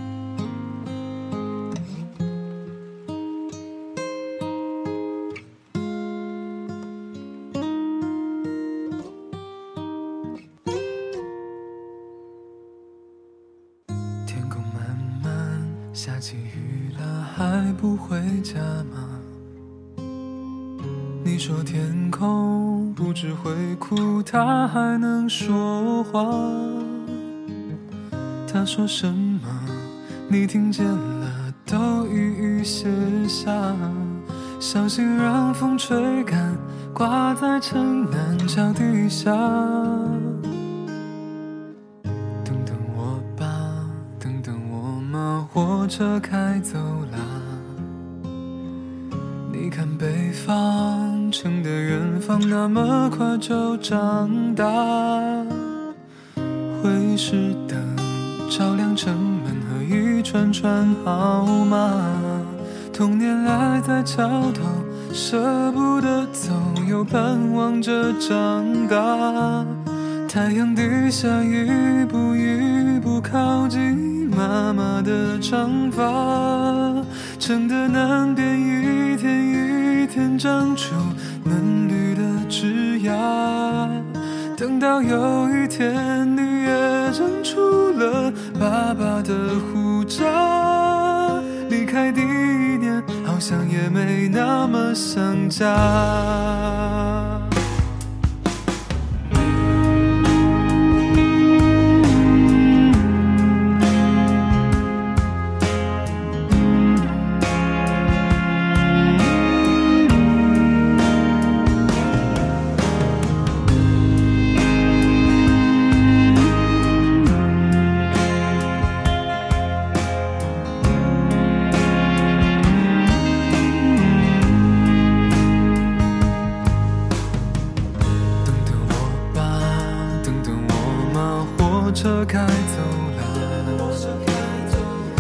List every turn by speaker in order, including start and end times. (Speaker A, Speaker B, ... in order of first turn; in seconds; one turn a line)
Speaker A: 14.3-19.3
Speaker A: 21.2-27.2
Speaker A: 28.5-40.5
Speaker A: 42.4-47.9
Speaker A: 49.5-55.9
Speaker A: 56.7-97.5
Speaker A: 123.5-124.9
Speaker A: 128.4-135.0